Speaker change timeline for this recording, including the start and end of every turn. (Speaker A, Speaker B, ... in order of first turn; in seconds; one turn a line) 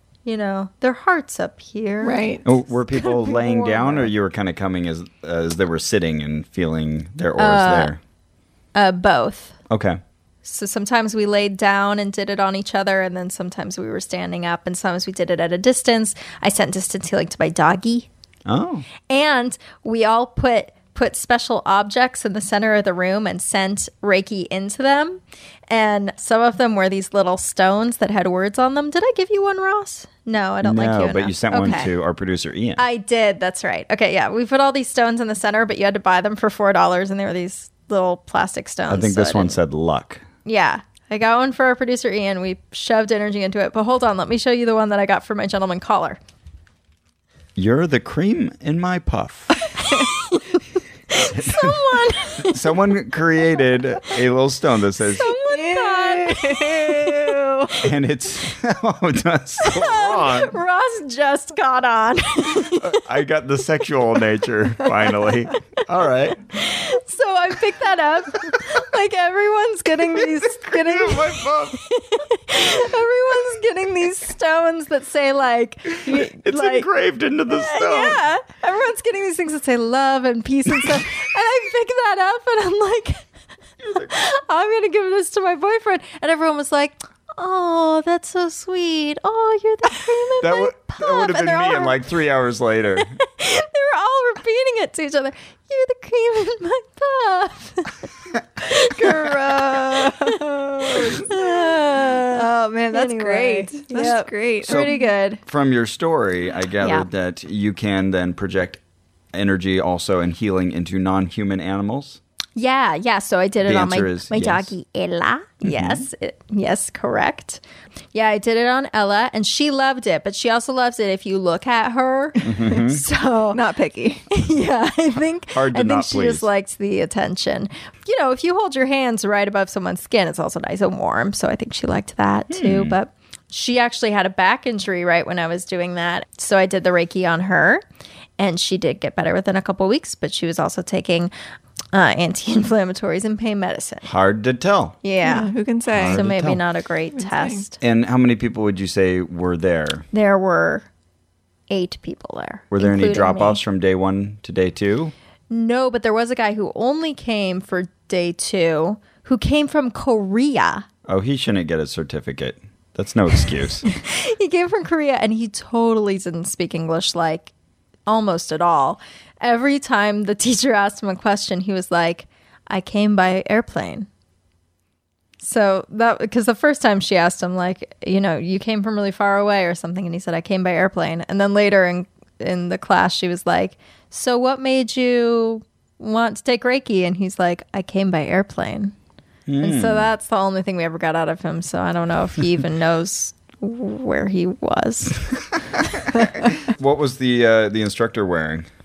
Speaker A: 0.2-4.1
Speaker B: 2.0-2.5
Speaker C: 2.5-8.0
Speaker A: 7.4-7.9
Speaker A: 8.8-9.6
Speaker C: 9.7-10.0
Speaker A: 10.4-18.1
Speaker C: 18.5-18.9
Speaker A: 19.1-31.9
Speaker C: 30.6-32.8
Speaker A: 32.8-39.6
Speaker C: 38.9-40.2
Speaker A: 40.5-46.2
Speaker C: 47.6-49.6
Speaker A: 49.8-50.6
Speaker A: 51.1-52.6
Speaker C: 51.3-51.8
Speaker C: 52.4-55.3
Speaker A: 55.2-57.4
Speaker B: 55.4-57.8
Speaker C: 57.8-60.6
Speaker A: 59.6-63.0
Speaker C: 62.6-66.4
Speaker A: 66.5-76.9
Speaker C: 70.2-71.8
Speaker C: 75.9-78.2
Speaker A: 77.5-83.3
Speaker C: 83.8-84.1
Speaker A: 84.0-92.0
Speaker C: 90.4-93.1
Speaker A: 93.1-98.0
Speaker A: 98.7-99.3
Speaker B: 98.8-101.8
Speaker A: 100.2-105.4
Speaker B: 102.3-105.1
Speaker C: 104.7-104.9
Speaker C: 105.4-108.8
Speaker A: 106.8-107.1
Speaker C: 109.3-112.2
Speaker A: 112.6-117.6
Speaker C: 113.6-114.7
Speaker C: 115.6-116.1
Speaker A: 118.1-123.6
Speaker C: 122.4-123.0
Speaker B: 123.5-124.2
Speaker A: 124.3-137.8
Speaker C: 125.5-126.5
Speaker C: 132.5-132.9
Speaker A: 138.4-141.3
Speaker A: 141.9-144.1
Speaker C: 144.0-145.0
Speaker A: 145.0-145.5
Speaker B: 145.2-146.3
Speaker C: 145.9-146.6
Speaker A: 146.1-147.8
Speaker B: 147.1-147.6
Speaker C: 147.8-150.1
Speaker A: 150.1-150.9
Speaker A: 151.7-153.6
Speaker C: 152.7-155.1
Speaker A: 155.5-160.9
Speaker C: 161.1-163.8
Speaker A: 163.9-167.5
Speaker A: 168.1-174.1
Speaker A: 175.4-188.9
Speaker C: 189.5-190.1
Speaker A: 189.6-195.2
Speaker C: 195.9-198.7